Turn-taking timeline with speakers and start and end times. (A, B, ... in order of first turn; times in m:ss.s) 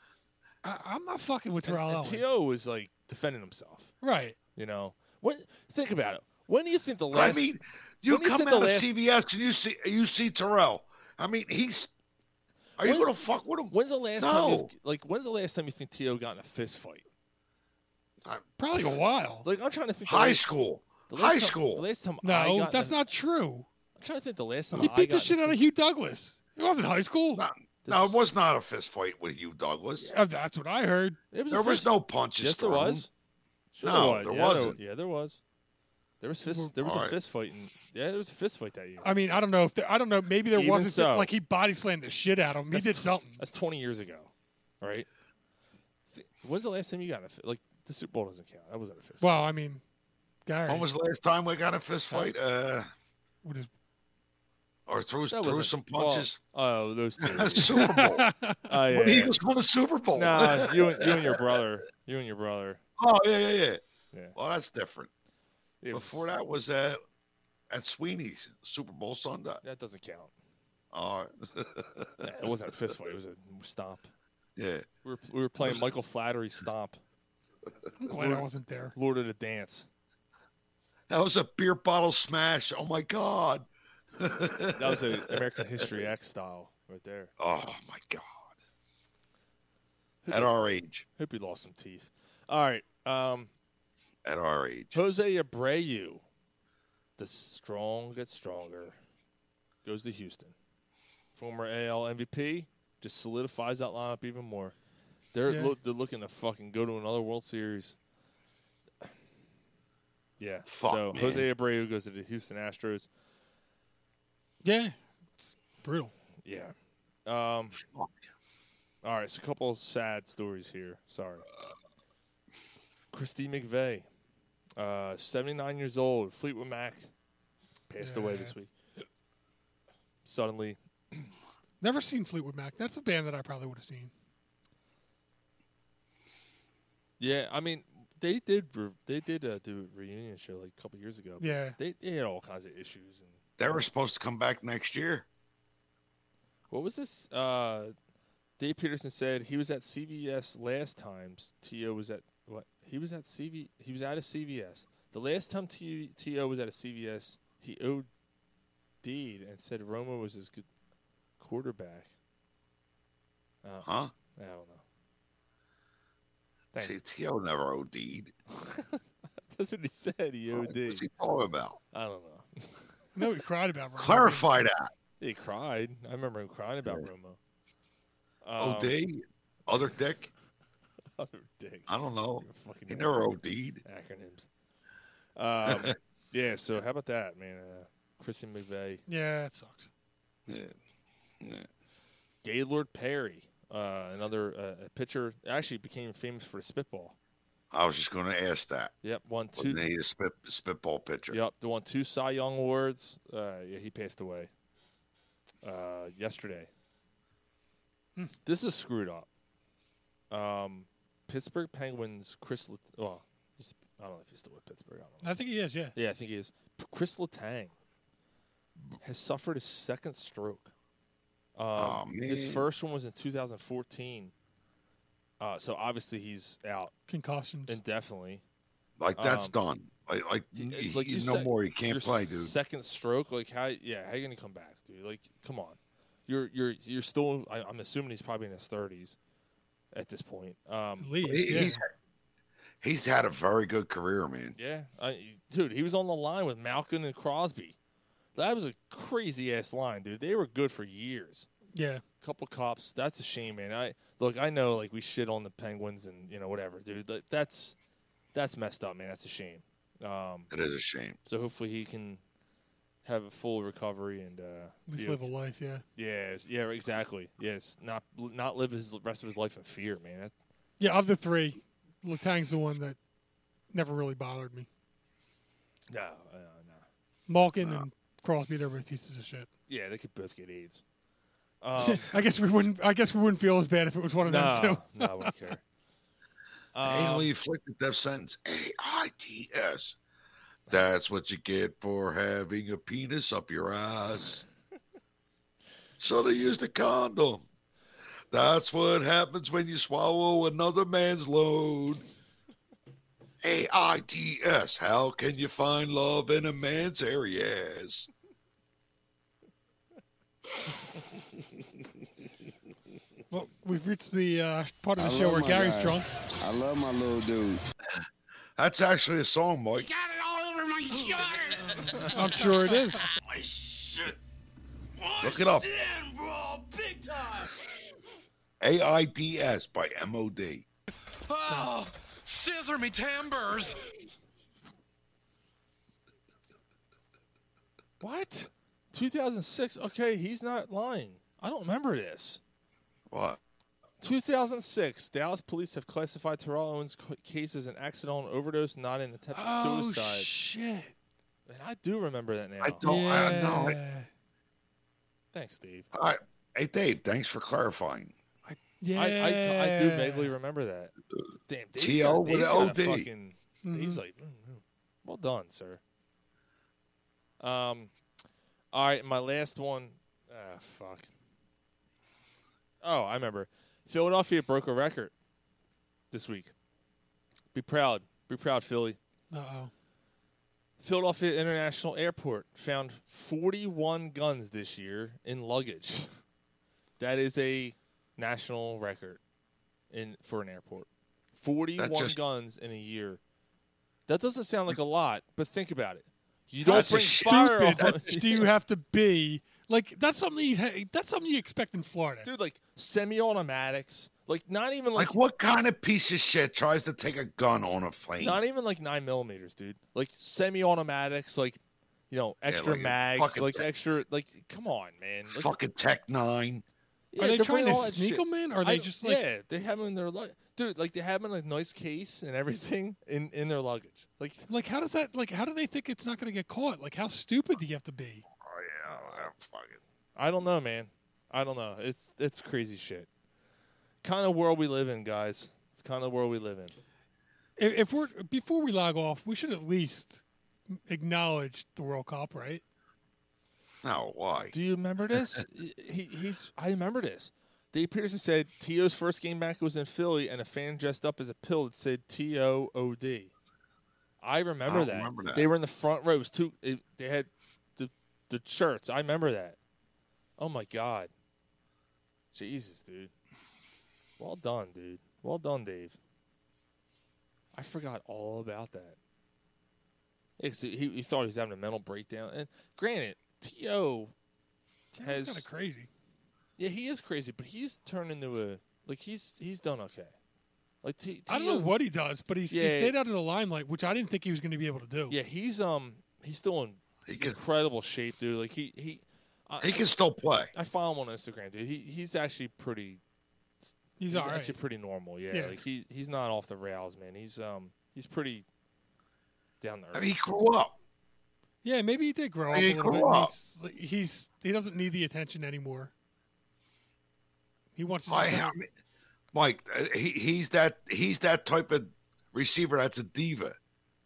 0:00.6-0:02.2 A
0:01.6-0:03.9 B
0:04.0-0:04.4 A
0:04.6-0:07.5 B
0:07.1-0:11.9 C
0:08.1-0:08.9 B
0:12.8-0:14.7 C
0:12.8-0:13.1 B
0:13.7-0:17.0 B
0:18.6-0:19.4 A
0:19.4-0:20.4 B
0:20.0-0:21.8 C
0:21.1-0:23.0 B
0:22.2-0:23.7 A
0:24.0-0:25.6 B
0:24.8-0:27.4 A
0:27.3-0:30.1 C
0:27.8-0:28.2 B
0:30.0-0:31.2 A
0:31.3-0:33.1 B
0:31.5-0:33.0 C
0:33.7-0:35.4 B
0:33.8-0:34.8 C
0:36.2-0:39.1 B
0:36.8-0:37.2 C
0:39.0-0:43.4 A
0:40.5-0:41.3 B
0:42.7-0:45.1 B
0:46.1-0:49.3 B
0:49.2-0:49.8 A
0:50.4-0:50.9 A
0:50.7-0:52.9 C
0:53.4-0:53.7 A
0:54.9-0:56.4 C
0:55.3-0:57.7 B
0:57.2-0:58.3 C
0:57.6-0:58.7 A
0:58.7-0:59.4 B
0:58.9-1:01.5 C
1:00.1-1:02.8 B
1:03.0-1:03.8 C
1:04.4-1:05.1 C
1:05.8-1:06.4 B
1:05.9-1:07.0 C
1:07.7-1:09.6 C
1:09.6-1:10.3 B
1:10.9-1:12.3 C
1:12.2-1:14.1 B
1:14.6-1:14.8 C
1:15.0-1:17.0 B
1:15.6-1:15.8 C
1:18.0-1:18.9 A
1:18.1-1:19.9 B
1:21.1-1:26.0 C
1:24.8-1:27.3 B
1:27.4-1:28.5 C
1:30.2-1:30.5 B
1:30.3-1:31.0 C
1:31.2-1:33.5 B
1:34.2-1:35.0 C
1:34.9-1:36.2 B
1:37.2-1:39.0 B
1:39.8-1:40.5 B
1:41.4-1:44.7 B
1:45.3-1:48.0 B
1:45.5-1:45.7 A
1:50.4-1:53.1 B
1:50.7-1:51.4 C
1:54.6-1:56.1 A
1:56.4-1:56.7 B
1:57.2-1:57.8 B
1:57.8-1:58.2 C
1:59.0-2:01.5 B
2:03.1-2:04.0 B
2:04.8-2:07.1 B
2:07.9-2:08.7 B
2:08.0-2:08.5 A
2:10.2-2:11.3 B
2:11.8-2:14.1 A
2:17.2-2:23.8 B
2:21.4-2:21.8 A
2:23.6-2:25.2 C
2:26.7-2:27.9 B
2:28.6-2:38.1 B
2:39.0-2:40.6 B
2:41.4-2:42.1 B
2:43.6-2:44.8 B
2:43.8-2:44.1 C
2:46.7-2:47.0 B
2:46.8-2:48.3 C
2:48.5-2:49.0 B
2:49.5-2:51.0 B
2:50.5-2:51.8 C
2:51.9-2:53.2 B
2:53.1-2:54.6 A
2:54.0-2:54.9 C
2:55.2-2:57.4 B
2:58.4-2:58.9 B
2:58.6-3:00.3 C
3:01.2-3:03.3 B
3:01.9-3:03.8 C
3:03.8-3:04.5 B
3:05.4-3:09.0 B
3:05.6-3:05.9 C
3:09.1-3:09.9 A
3:10.5-3:10.7 B
3:11.4-3:11.7 C
3:12.4-3:17.1 B
3:17.7-3:18.9 C
3:19.0-3:19.8 B
3:19.6-3:21.4 C
3:21.3-3:24.5 B
3:25.6-3:26.7 B
3:28.4-3:29.3 B
3:30.3-3:35.4 B
3:35.2-3:35.9 A
3:35.9-3:37.7 B
3:39.0-3:40.7 B
3:41.6-3:44.3 B
3:41.8-3:42.6 C
3:45.4-3:46.9 B
3:47.1-3:47.8 A
3:47.7-3:48.4 B
3:49.0-3:52.5 C
3:49.2-3:49.5 B
3:50.6-3:59.2 B
3:59.9-4:01.1 B
4:01.0-4:01.8 A
4:01.2-4:01.9 C
4:02.8-4:04.6 C
4:04.6-4:07.8 B
4:08.3-4:11.5 B
4:11.7-4:12.0 A
4:12.2-4:17.8 B
4:18.3-4:20.5 B
4:20.5-4:21.2 C
4:21.2-4:22.2 B
4:23.0-4:25.2 B
4:24.9-4:25.8 A
4:26.0-4:30.3 B
4:30.8-4:33.0 A
4:33.7-4:34.7 A
4:35.9-4:36.8 B
4:37.3-4:39.5 A
4:39.7-4:40.8 B
4:41.6-4:42.2 B
4:41.8-4:45.3 A
4:44.2-4:45.6 B
4:46.7-4:47.3 B
4:46.8-4:50.0 C
4:50.7-4:54.4 C
4:56.0-4:57.4 C
4:58.3-5:02.0 C
5:03.4-5:08.1 C
5:13.3-5:16.1 A
5:15.0-5:17.6 D
5:18.6-5:19.9 C
5:19.9-5:22.5 E
5:22.1-5:23.0 A
5:23.2-5:24.2 E
5:25.0-5:27.5 E
5:25.2-5:25.6 C
5:28.6-5:30.6 C
5:31.2-5:33.8 E
5:38.0-5:42.4 B
5:43.1-5:43.4 C
5:44.0-5:50.3 B
5:49.3-5:50.9 A
5:51.5-5:52.8 B
5:52.6-5:53.8 C
5:52.8-5:54.1 A
5:55.3-5:55.9 B
5:55.9-5:58.1 C
5:58.4-6:00.3 A
5:58.9-6:00.9 B
6:01.5-6:05.8 B
6:01.8-6:03.1 C
6:03.6-6:04.0 A
6:07.4-6:07.9 B
6:08.7-6:11.1 B
6:12.8-6:15.1 B
6:16.1-6:16.5 B
6:17.5-6:19.0 B
6:19.3-6:19.7 A
6:20.8-6:26.1 B
6:27.0-6:29.2 B
6:29.9-6:33.2 B
6:31.8-6:32.2 C
6:34.1-6:38.4 B
6:36.6-6:38.1 C
6:36.6-6:42.3 A
6:42.2-6:45.2 B
6:45.0-6:48.4 C
6:48.2-6:55.5 B
6:52.4-6:53.6 C
6:55.3-6:56.6 C
6:57.1-7:04.5 B
6:57.2-6:59.2 A
7:04.5-7:08.2 A
7:08.4-7:09.8 C
7:08.9-7:09.2 B
7:10.2-7:13.1 B
7:14.0-7:16.7 B
7:17.6-7:22.6 A
7:23.8-7:24.5 C
7:24.5-7:33.3 B
7:34.2-7:39.6 B
7:34.6-7:35.5 C
7:40.4-7:41.1 B
7:42.3-7:43.1 B
7:44.2-7:46.0 B
7:47.5-7:49.0 B
7:50.4-7:54.1 B
7:54.9-7:55.9 A
7:55.0-7:55.5 B
7:56.6-8:00.1 B
8:00.8-8:01.8 B
8:01.3-8:05.2 A
8:02.5-8:03.0 B
8:05.1-8:09.9 B
8:07.0-8:07.4 C
8:09.6-8:10.5 C
8:10.5-8:13.0 B
8:13.6-8:18.4 B
8:14.0-8:14.6 A
8:15.3-8:15.6 A
8:19.6-8:20.2 B
8:19.9-8:20.7 C
8:21.6-8:25.9 A
8:22.5-8:23.3 C
8:27.8-8:28.5 A
8:28.1-8:28.7 C
8:29.3-8:33.6 C